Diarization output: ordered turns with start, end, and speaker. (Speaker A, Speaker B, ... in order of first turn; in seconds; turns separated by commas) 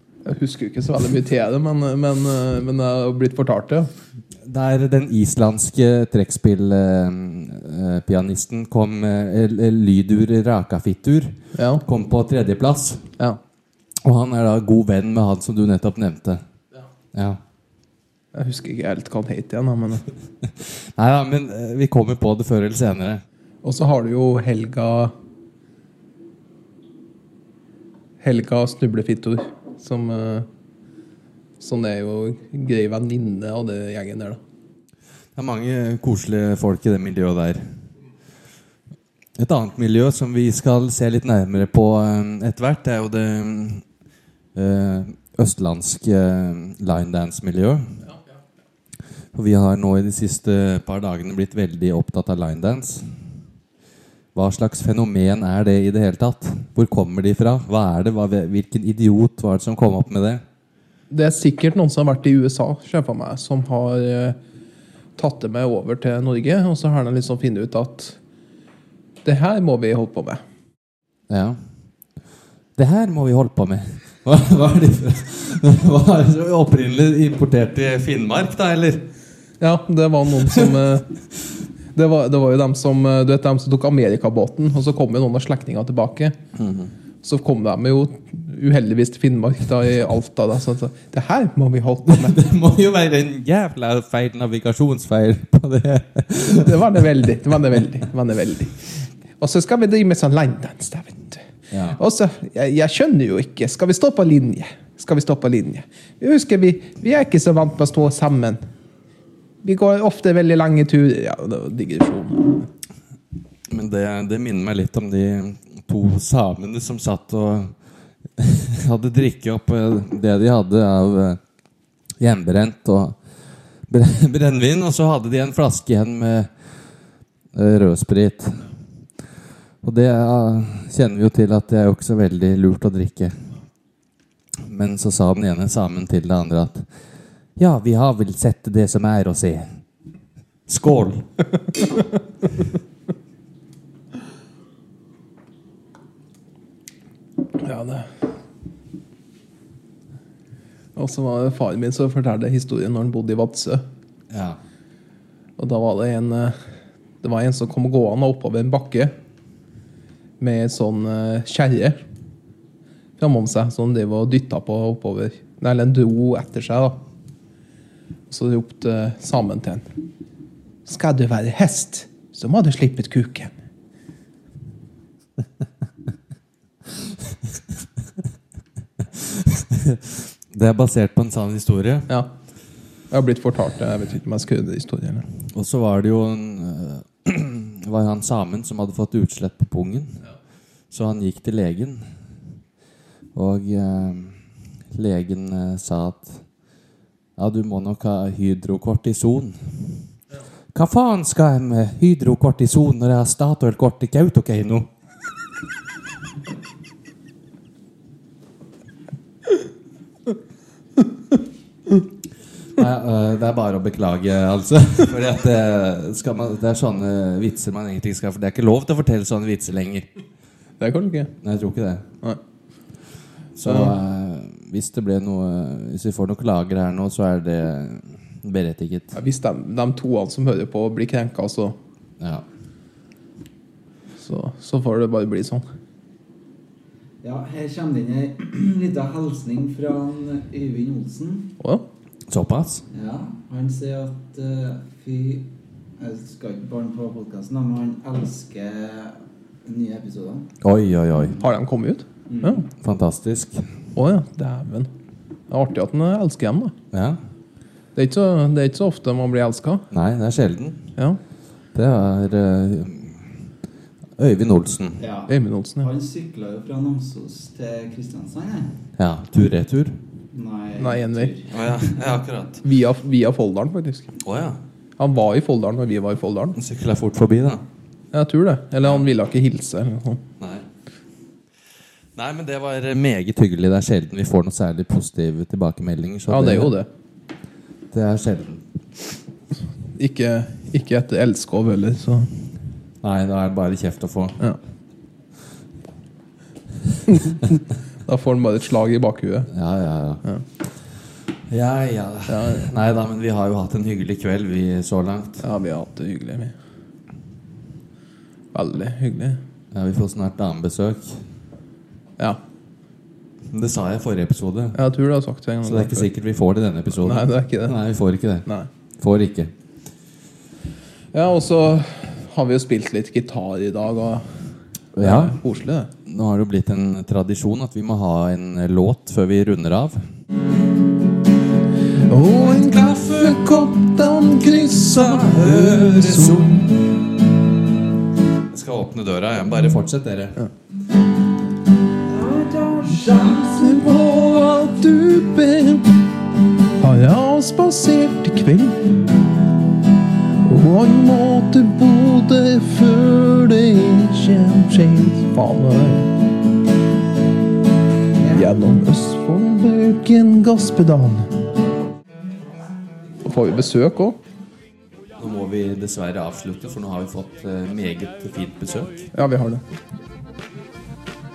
Speaker A: 0.2-3.9, Speaker B: 4.5-13.1, Speaker A: 11.6-11.8, Speaker B: 14.1-16.4, Speaker B: 17.1-17.4, Speaker A: 18.3-20.1, Speaker B: 20.5-23.2, Speaker A: 23.6-25.1, Speaker A: 28.2-30.5, Speaker A: 31.6-34.4, Speaker B: 35.4-37.6, Speaker B: 39.4-43.8, Speaker B: 44.5-48.0, Speaker B: 49.3-53.0, Speaker B: 54.4-60.4, Speaker A: 61.1-64.4, Speaker A: 65.2-68.2, Speaker A: 69.2-70.4, Speaker B: 71.3-71.6, Speaker B: 72.8-79.1, Speaker A: 79.6-81.1, Speaker A: 82.0-86.4, Speaker B: 86.6-86.9, Speaker A: 87.2-92.4, Speaker B: 92.1-97.0, Speaker A: 96.4-108.6, Speaker B: 101.7-102.0, Speaker A: 109.6-112.7, Speaker B: 113.7-117.7, Speaker B: 118.4-121.4, Speaker B: 122.2-123.2, Speaker B: 123.9-126.5, Speaker B: 127.5-128.7, Speaker B: 129.8-133.3, Speaker B: 134.7-136.8, Speaker B: 137.6-139.7, Speaker B: 140.7-141.3, Speaker A: 147.6-148.1, Speaker A: 150.9-153.8, Speaker B: 154.3-154.6, Speaker A: 155.6-156.6, Speaker A: 157.2-159.1, Speaker A: 160.4-162.0, Speaker A: 163.2-167.0, Speaker A: 168.3-169.8, Speaker A: 170.9-173.5, Speaker B: 179.2-182.1, Speaker A: 183.1-185.3, Speaker B: 185.5-190.2, Speaker B: 190.9-192.0, Speaker B: 193.3-194.4, Speaker B: 194.9-196.4, Speaker B: 197.4-200.0, Speaker B: 200.7-204.9, Speaker B: 212.8-220.1, Speaker A: 220.8-221.3, Speaker B: 221.4-222.0, Speaker B: 223.6-229.2, Speaker A: 223.7-224.0, Speaker A: 229.1-231.8, Speaker B: 232.2-232.4, Speaker A: 234.2-235.6, Speaker C: 237.2-241.5, Speaker A: 241.6-241.8, Speaker B: 242.3-242.8, Speaker C: 242.9-250.5, Speaker B: 250.6-251.4, Speaker A: 251.4-252.6, Speaker C: 252.3-252.7, Speaker B: 252.8-253.6, Speaker A: 253.9-254.9, Speaker A: 255.5-256.7, Speaker B: 256.9-257.2, Speaker A: 257.9-259.9, Speaker B: 259.9-260.8, Speaker B: 261.8-263.2, Speaker B: 264.2-265.0, Speaker C: 265.0-268.7, Speaker A: 265.3-265.9, Speaker B: 269.0-270.0, Speaker C: 270.3-272.1, Speaker A: 270.8-271.3, Speaker B: 271.5-272.6, Speaker A: 272.6-274.1, Speaker B: 274.2-274.6, Speaker A: 275.0-276.6, Speaker B: 276.6-277.6, Speaker A: 278.1-280.2, Speaker B: 280.4-280.6, Speaker B: 282.2-286.8, Speaker A: 286.3-286.9, Speaker B: 287.9-288.6, Speaker A: 289.9-292.3, Speaker B: 293.0-294.4, Speaker A: 297.1-299.5, Speaker B: 299.5-300.2, Speaker B: 301.5-305.4, Speaker A: 302.3-302.7, Speaker A: 305.4-306.5, Speaker A: 308.5-309.4, Speaker B: 309.7-311.2, Speaker B: 313.5-314.8, Speaker A: 314.8-316.1, Speaker B: 315.6-318.5, Speaker A: 317.0-317.8, Speaker B: 319.0-319.5, Speaker A: 321.1-324.2, Speaker B: 325.0-325.4, Speaker A: 325.0-325.9, Speaker B: 326.1-330.0, Speaker A: 332.1-336.7, Speaker B: 332.4-333.4, Speaker B: 334.6-336.6, Speaker B: 338.5-340.4, Speaker C: 342.1-343.8, Speaker A: 342.9-345.9, Speaker A: 346.8-349.1, Speaker A: 350.4-356.1, Speaker A: 358.2-361.3, Speaker A: 363.2-364.2, Speaker B: 365.2-369.1, Speaker A: 369.1-369.6